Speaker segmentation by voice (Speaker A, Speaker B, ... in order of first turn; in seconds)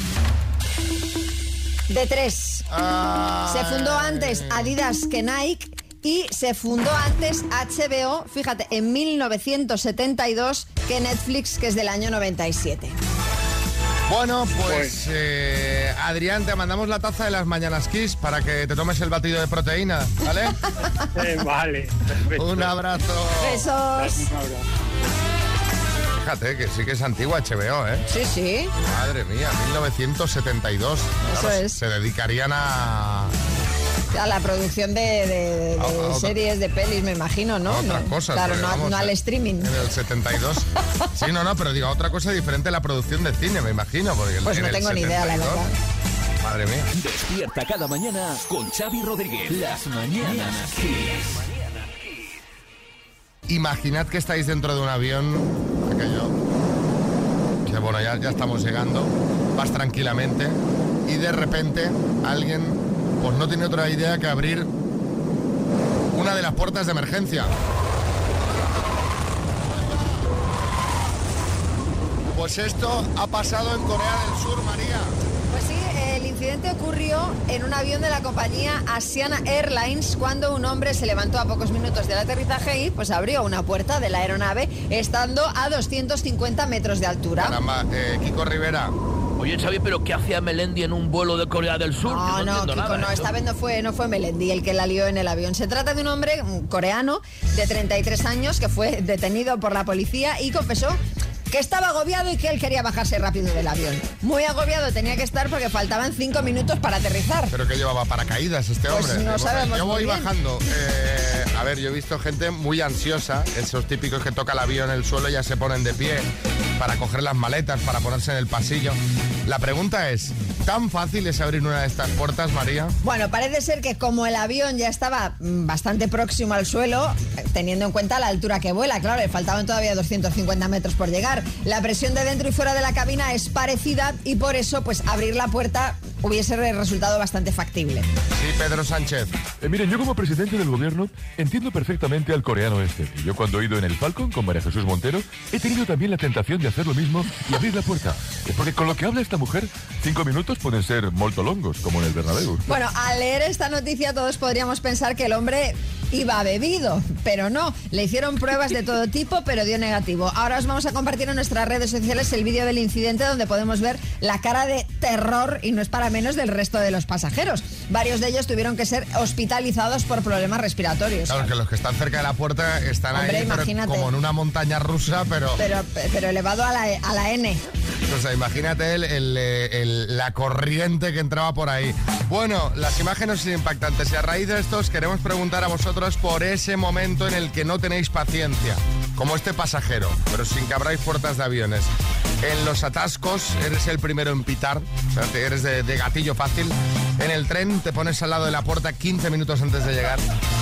Speaker A: 1.9-2.6, 3.5-12.9, 23.4-24.2, 28.1-28.7, 31.2-31.8, 34.1-39.7, 44.4-45.7, 75.5-87.6, 92.0-101.0, 101.5-107.5, 108.9-110.3, 123.0-138.1, 152.7-171.5, 173.1-174.1, 175.6-177.6
Speaker B: 2.7-4.7, 14.1-20.6, 22.3-23.7, 26.2-28.1, 28.8-33.3, 35.8-36.4, 37.7-45.6, 46.4-46.9, 53.5-56.3, 57.6-64.7, 66.1-67.5, 72.3-75.1, 87.4-88.9, 107.5-123.0, 138.3-139.4, 171.3-175.6, 178.1-191.9, 192.4-200.2
Speaker C: 14.7-14.9, 21.1-22.8, 23.9-24.6
Speaker D: 46.9-51.5
Speaker E: 89.4-93.3
Speaker F: 139.6-152.7